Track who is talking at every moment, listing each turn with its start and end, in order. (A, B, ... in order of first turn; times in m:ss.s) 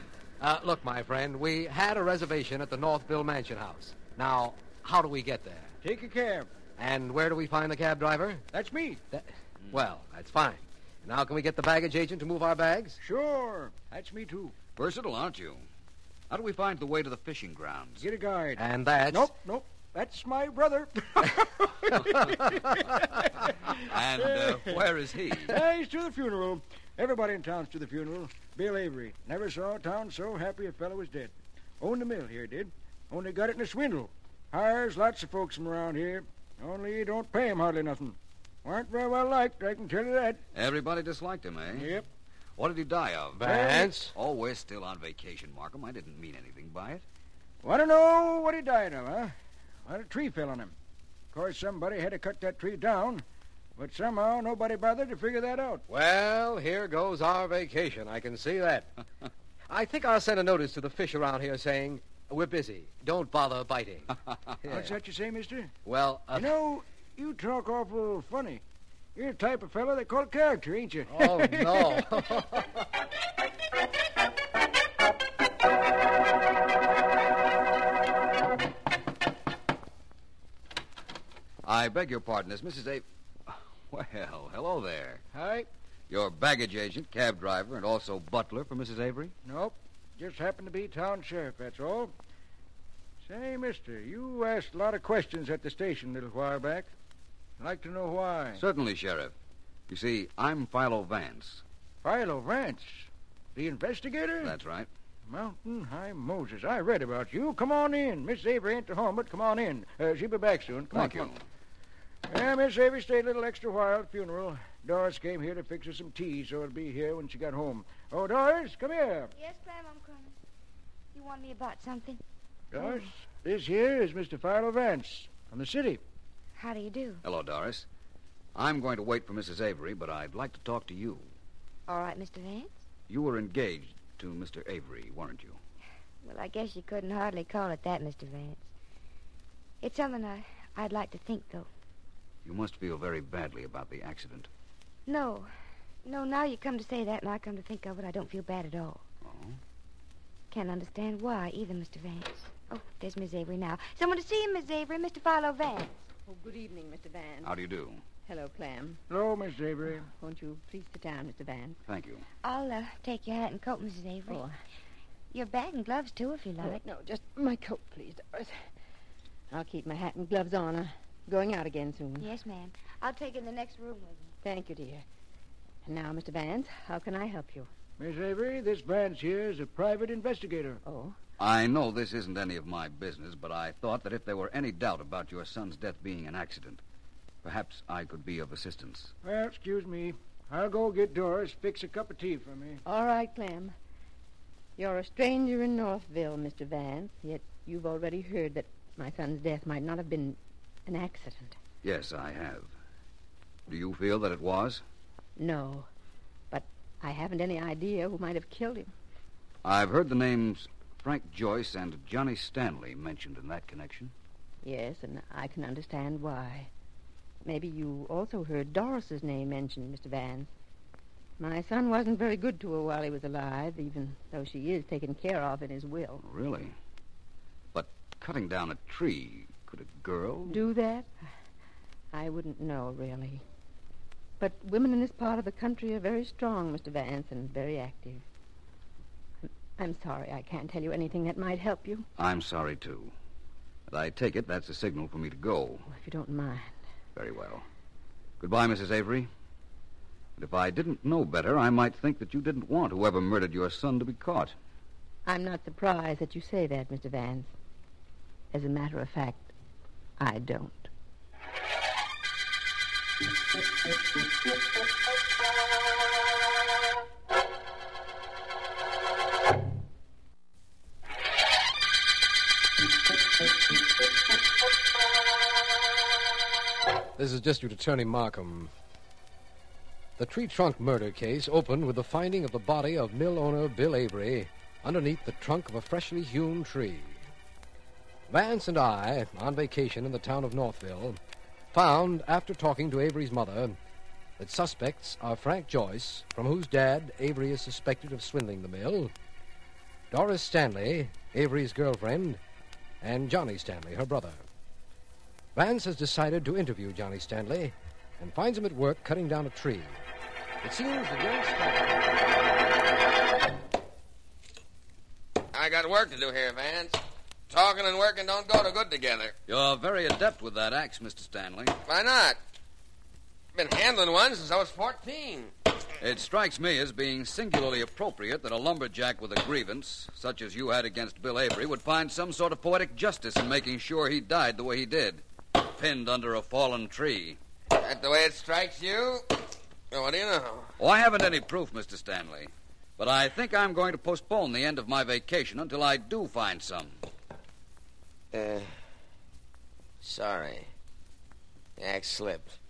0:00.4-0:05.7 A
0:05.8-0:06.5 B
0:06.8-0:08.4 A
0:08.5-0:09.0 B
0:09.1-0:13.0 A
0:13.0-0:14.5 B
0:14.8-0:15.6 C
0:16.3-0:18.1 C
0:18.0-0:24.8 B
0:18.6-0:19.3 A
0:23.8-0:25.6 C
0:25.5-0:40.4 B
0:40.5-0:41.9 C
0:41.7-0:42.1 B
0:42.6-0:47.0 C
0:43.4-0:44.1 A
0:43.4-0:43.9 B
0:47.6-0:50.7 B
0:51.3-0:53.2 B
0:53.8-0:55.8 B
0:55.9-0:58.9 A
0:59.7-1:04.9 A
1:04.7-1:05.7 B
1:05.8-1:06.5 A
1:06.3-1:08.6 B
1:09.1-1:12.4 B
1:11.1-1:12.8 A
1:21.6-1:25.2 C
1:25.3-1:25.7 B
1:26.1-1:29.3 C
1:29.4-1:32.1 B
1:33.2-1:36.9 B
1:37.6-1:38.6 B
1:38.6-1:39.3 C
1:39.9-1:41.6 C
1:42.0-1:44.6 B
1:44.4-1:44.9 C
1:45.3-1:51.3 B
1:50.9-1:51.4 C
1:52.3-1:59.3 B
1:59.4-2:00.3 D
2:01.1-2:02.2 D
2:02.7-2:06.0 B
2:02.8-2:03.1 D
2:06.6-2:07.2 D
2:07.2-2:07.8 C
2:08.5-2:11.3 C
2:11.9-2:12.8 D
2:13.1-2:15.6 C
2:16.2-2:18.7 D
2:19.8-2:21.7 D
2:22.4-2:24.5 C
2:25.1-2:25.5 D
2:26.0-2:29.0 D
2:29.2-2:29.6 C
2:30.5-2:36.0 D
2:36.3-2:37.5 E
2:37.4-2:38.0 C
2:38.2-2:39.0 E
2:39.1-2:40.1 B
2:40.0-2:41.8 E
2:41.8-2:42.2 C
2:42.4-2:44.4 D
2:44.3-2:44.5 E
2:45.3-2:46.8 D
2:46.6-2:48.6 E
2:49.5-2:52.3 E
2:52.2-2:54.3 D
2:54.4-2:55.0 E
2:55.8-2:57.7 E
2:58.0-3:00.8 B
3:00.8-3:01.2 E
3:01.4-3:06.8 C
3:07.4-3:09.1 C
3:09.2-3:12.8 B
3:12.8-3:13.8 E
3:14.8-3:21.6 E
3:21.8-3:22.7 C
3:23.7-3:24.8 C
3:25.4-3:25.9 E
3:26.5-3:28.9 E
3:29.6-3:34.1 C
3:34.6-3:36.7 E
3:37.4-3:40.5 E
3:41.4-3:46.2 E
3:46.2-3:46.8 C
3:47.7-3:50.6 C
3:50.5-3:51.1 E
3:52.1-3:53.4 E
3:54.4-3:58.2 E
3:59.8-4:02.0 E
4:02.2-4:03.1 C
4:03.9-4:05.9 C
4:05.9-4:06.7 E
4:07.2-4:07.6 C
4:08.4-4:09.3 C
4:10.4-4:14.5 C
4:15.2-4:17.5 E
4:18.5-4:19.5 E
4:20.2-4:20.9 E
4:37.2-4:38.7 A
4:40.2-4:47.2 A
4:48.3-4:51.2 A
4:51.7-4:53.8 A
4:54.4-4:59.1 A
5:00.1-5:02.4 A
5:03.0-5:04.4 A
5:05.5-5:10.0 A
5:10.6-5:12.0 A
5:15.5-5:19.3 F
5:19.5-5:21.8 C
5:21.9-5:22.4 F
5:23.5-5:25.5 F
5:26.0-5:37.4 C
5:37.7-5:39.3 F
5:39.9-5:40.7 F
5:40.8-5:47.0 C
5:48.3-5:48.7 F
5:50.0-5:50.7 F
5:51.8-5:52.6 F